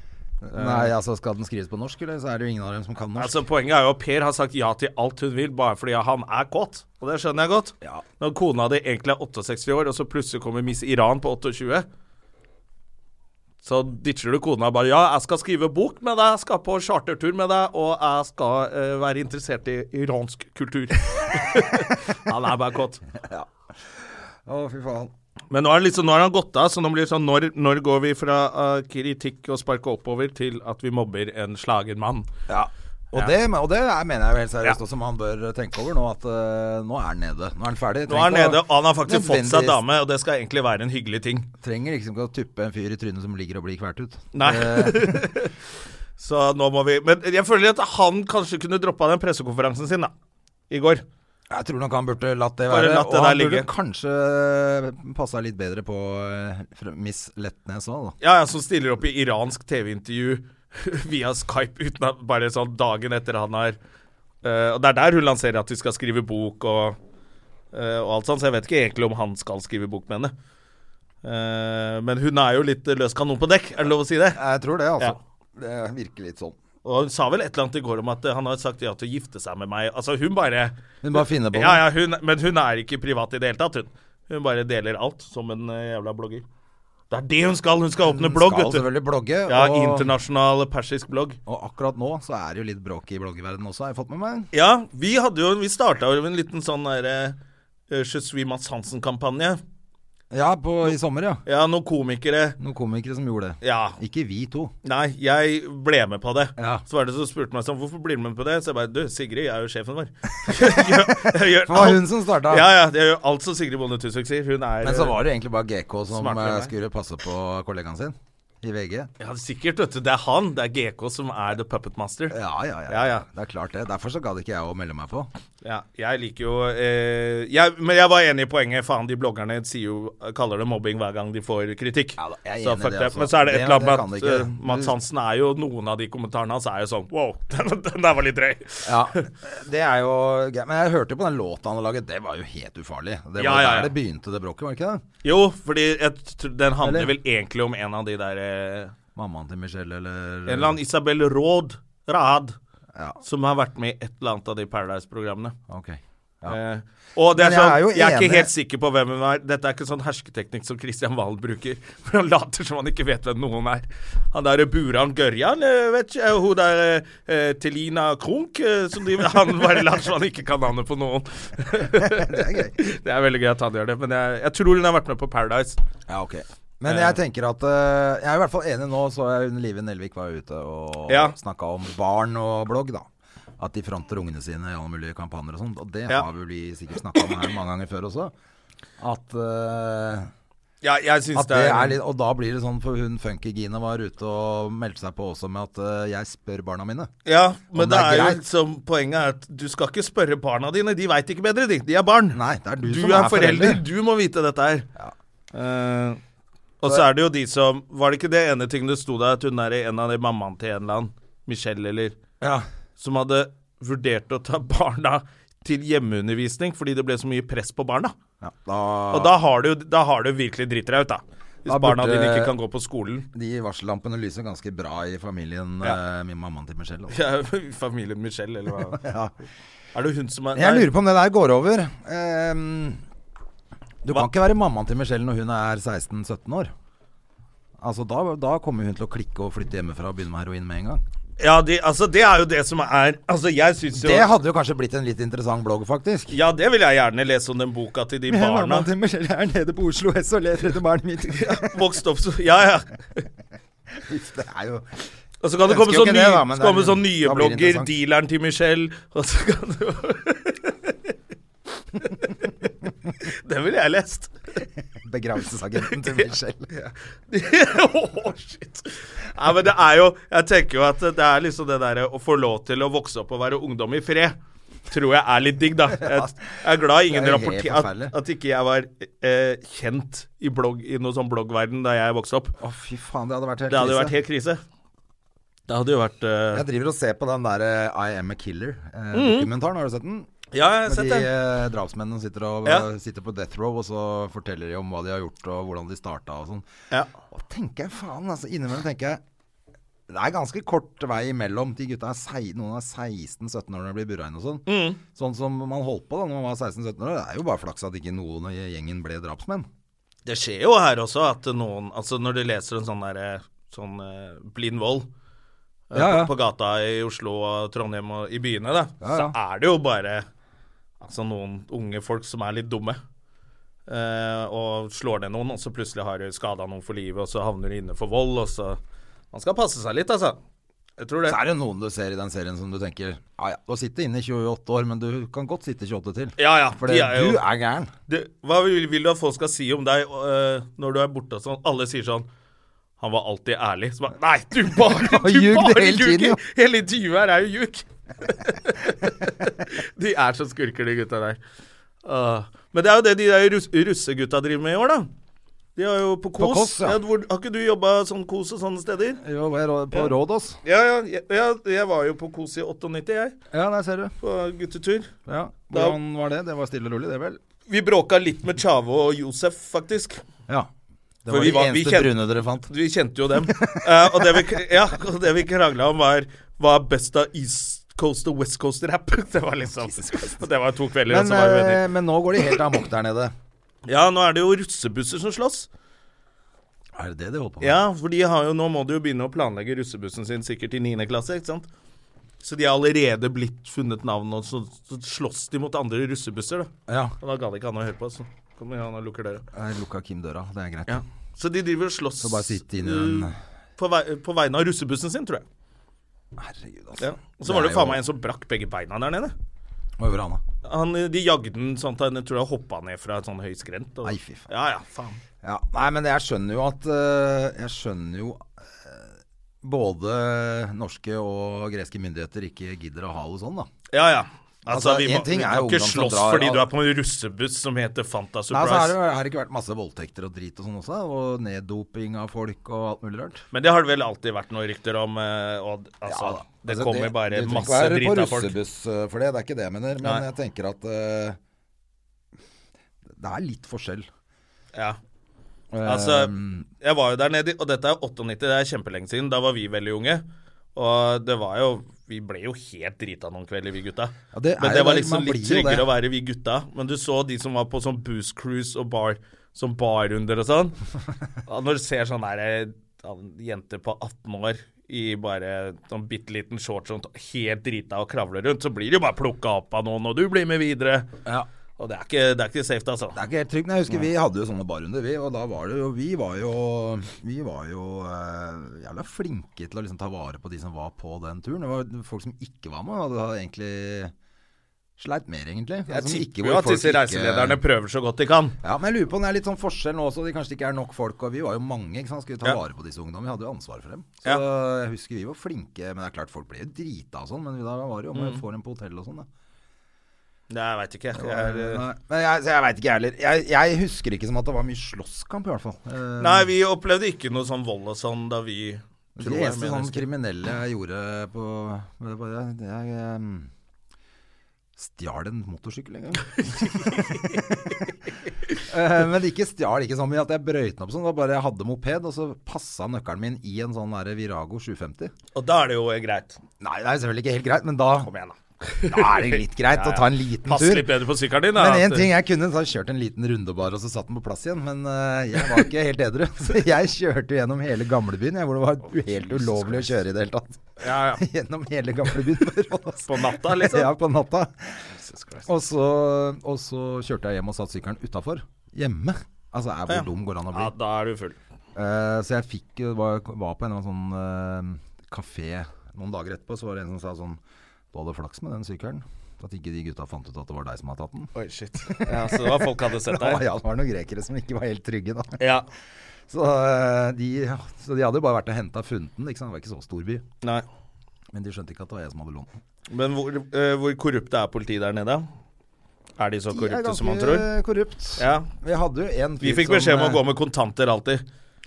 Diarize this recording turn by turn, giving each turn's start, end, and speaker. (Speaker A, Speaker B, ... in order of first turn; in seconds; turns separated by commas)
Speaker A: 0.4-3.4, Speaker B: 0.5-0.9, Speaker B: 3.2-11.8, Speaker B: 13.6-23.0, Speaker A: 23.2-23.5, Speaker A: 24.4-25.1, Speaker B: 25.5-32.3, Speaker A: 32.5-39.8, Speaker B: 38.1-41.5, Speaker A: 41.6-45.3, Speaker B: 44.3-45.5, Speaker B: 46.2-50.1, Speaker B: 50.7-51.0, Speaker A: 51.5-58.1, Speaker B: 52.7-53.7, Speaker B: 58.2-63.8, Speaker B: 64.4-67.0, Speaker B: 67.7-70.3, Speaker B: 71.2-74.4, Speaker A: 74.3-76.5, Speaker B: 76.8-86.4, Speaker A: 81.0-81.8, Speaker B: 87.1-88.9, Speaker A: 88.0-90.1, Speaker B: 89.5-91.4, Speaker A: 91.5-94.5, Speaker B: 94.5-97.4, Speaker B: 97.9-99.6, Speaker A: 100.3-101.4, Speaker B: 101.5-102.6, Speaker A: 102.6-104.7, Speaker B: 103.6-104.0, Speaker B: 104.8-115.2, Speaker A: 106.6-106.8, Speaker A: 110.5-112.7, Speaker A: 114.8-119.1, Speaker B: 116.1-116.7, Speaker B: 119.2-122.3, Speaker A: 122.3-125.3, Speaker B: 122.9-123.2, Speaker B: 125.6-139.3, Speaker A: 132.2-134.9, Speaker A: 138.8-145.0, Speaker B: 143.4-143.9, Speaker B: 145.2-148.9, Speaker A: 146.8-147.1, Speaker A: 149.1-150.8, Speaker B: 150.5-152.6, Speaker A: 152.9-153.2, Speaker B: 153.2-155.6, Speaker A: 155.7-156.6, Speaker B: 156.4-175.8, Speaker A: 157.3-158.5, Speaker A: 172.0-172.7, Speaker A: 176.1-183.1, Speaker B: 176.8-177.2, Speaker B: 181.1-181.3, Speaker A: 183.6-188.3, Speaker A: 189.0-190.3, Speaker B: 190.8-192.0, Speaker A: 191.3-197.1, Speaker B: 197.2-204.9, Speaker A: 197.7-198.4, Speaker A: 202.3-203.8, Speaker B: 205.5-206.2, Speaker B: 206.8-212.2, Speaker A: 212.4-212.7, Speaker B: 213.0-218.1, Speaker A: 218.4-219.3, Speaker B: 219.1-223.3, Speaker A: 221.7-222.5, Speaker A: 223.3-227.2, Speaker B: 227.1-229.0, Speaker A: 228.9-229.3, Speaker B: 229.9-230.9, Speaker A: 230.5-233.0, Speaker A: 234.0-236.7, Speaker A: 237.8-241.0, Speaker B: 241.4-244.3, Speaker A: 243.9-246.4, Speaker B: 246.3-248.9, Speaker A: 248.3-251.8, Speaker B: 251.3-253.2, Speaker A: 253.9-255.0, Speaker B: 255.4-261.1, Speaker A: 255.6-257.9, Speaker B: 262.0-262.5, Speaker B: 263.2-264.3, Speaker A: 265.0-266.7, Speaker B: 265.9-274.3, Speaker B: 274.9-282.6, Speaker A: 276.0-276.3, Speaker A: 277.0-278.1, Speaker A: 282.6-284.1, Speaker B: 283.7-284.6, Speaker B: 285.7-286.6, Speaker A: 286.5-290.3, Speaker B: 289.1-289.5, Speaker B: 290.5-291.3, Speaker A: 290.8-296.6, Speaker A: 297.3-299.2, Speaker A: 300.1-309.7, Speaker B: 304.7-305.0, Speaker B: 310.2-315.1, Speaker B: 315.9-320.3, Speaker A: 315.9-316.3, Speaker A: 319.0-319.3, Speaker B: 321.0-323.0, Speaker B: 323.9-328.8, Speaker B: 329.3-330.4, Speaker B: 331.0-331.4, Speaker A: 331.2-337.9, Speaker B: 336.4-337.4, Speaker B: 338.1-342.3, Speaker B: 343.0-351.4, Speaker A: 344.7-346.4, Speaker B: 352.0-355.1, Speaker B: 355.8-359.2, Speaker A: 356.4-357.0, Speaker A: 359.2-360.6, Speaker B: 360.6-363.4, Speaker A: 363.5-364.1, Speaker B: 364.2-365.1, Speaker A: 365.3-367.4, Speaker B: 365.7-366.0, Speaker B: 367.7-370.2, Speaker A: 371.2-372.7, Speaker B: 371.3-372.1, Speaker B: 372.6-381.8, Speaker A: 373.3-374.6, Speaker A: 379.7-380.4, Speaker A: 381.1-383.3, Speaker B: 383.9-385.7, Speaker A: 386.9-387.8, Speaker B: 387.6-391.7, Speaker B: 392.4-399.4, Speaker A: 396.9-397.1, Speaker A: 399.5-401.0, Speaker B: 400.9-405.4, Speaker A: 402.2-403.4, Speaker A: 406.3-408.0, Speaker B: 407.0-409.3, Speaker A: 410.0-410.4, Speaker B: 410.6-415.2, Speaker A: 414.0-414.5, Speaker A: 415.4-419.1, Speaker A: 419.6-423.7, Speaker B: 423.9-428.9, Speaker A: 424.6-426.7, Speaker A: 428.5-433.4, Speaker B: 433.5-438.5, Speaker A: 436.0-441.4, Speaker A: 443.1-444.1, Speaker A: 445.7-446.7, Speaker B: 445.8-460.8, Speaker A: 454.3-455.9, Speaker B: 461.4-471.1, Speaker B: 471.8-473.2, Speaker A: 473.1-484.1, Speaker A: 485.0-487.6, Speaker B: 485.9-488.6, Speaker A: 488.6-499.3, Speaker B: 498.1-498.4, Speaker B: 500.5-501.8, Speaker A: 501.1-506.5, Speaker B: 506.2-510.0, Speaker A: 509.1-513.5, Speaker A: 514.8-517.9, Speaker B: 516.4-517.4, Speaker A: 518.6-525.1, Speaker B: 525.3-526.4, Speaker A: 526.6-528.1, Speaker B: 528.1-532.1, Speaker A: 528.9-531.0, Speaker A: 531.5-544.8, Speaker B: 539.1-539.9, Speaker B: 540.8-541.2, Speaker B: 543.1-543.9, Speaker B: 545.0-545.5, Speaker A: 545.4-550.7, Speaker B: 549.9-551.4, Speaker A: 551.7-557.4, Speaker A: 557.9-561.3, Speaker B: 561.3-563.4, Speaker A: 561.9-565.4, Speaker B: 565.4-565.7, Speaker A: 566.3-570.2, Speaker A: 571.3-572.5, Speaker B: 572.9-575.2, Speaker B: 576.2-577.5, Speaker A: 576.5-580.2, Speaker B: 578.2-578.5, Speaker B: 579.4-581.2